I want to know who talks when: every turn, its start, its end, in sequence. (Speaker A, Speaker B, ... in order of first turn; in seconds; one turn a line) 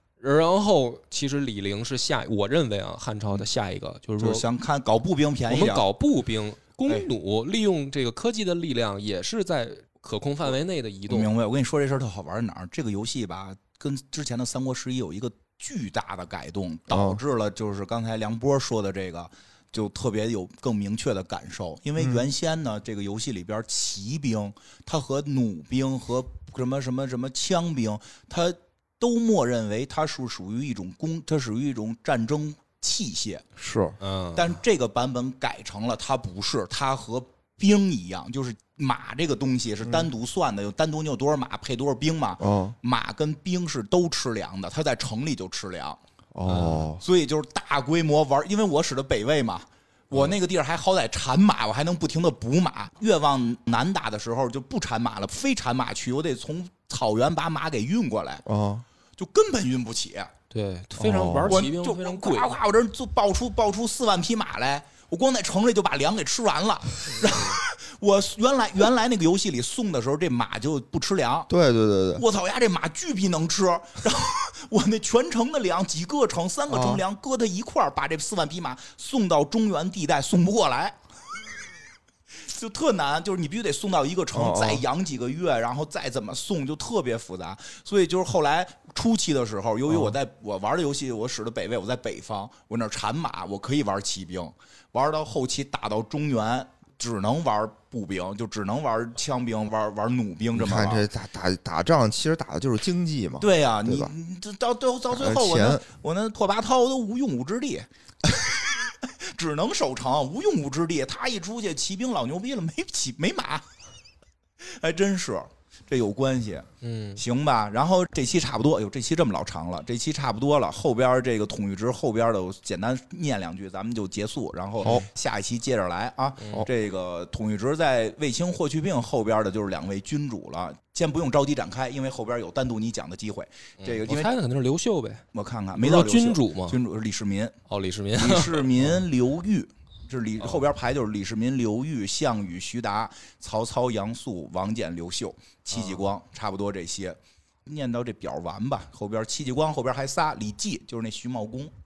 Speaker A: 0.2-4.4
Speaker B: 4.2-5.9
Speaker A: 5.5-11.3
Speaker B: 11.1-33.5
Speaker C: 16.9-17.2
Speaker C: 22.0-22.2
Speaker C: 33.6-34.0
Speaker A: 34.0-34.5
Speaker B: 34.4-46.0
Speaker C: 42.4-42.8
Speaker C: 46.3-47.0
Speaker A: 46.5-46.9
Speaker B: 47.0-58.5
Speaker C: 58.5-58.9
Speaker B: 59.2-60.3
Speaker A: 60.5-62.6
Speaker C: 61.0-61.6
Speaker B: 61.5-71.5
Speaker C: 71.5-72.2
Speaker B: 72.2-81.0
Speaker C: 76.7-77.0
Speaker B: 82.4-101.1
Speaker C: 84.3-84.8
Speaker C: 89.9-90.2
Speaker C: 100.5-104.1
Speaker B: 103.4-113.7
Speaker C: 105.1-105.8
Speaker B: 114.6-134.3
Speaker A: 116.8-117.2
Speaker C: 124.8-125.1
Speaker A: 126.4-126.7
Speaker A: 133.8-135.2
Speaker B: 135.3-137.6
Speaker A: 135.8-136.8
Speaker A: 137.7-138.9
Speaker B: 138.2-151.7
Speaker A: 145.7-146.0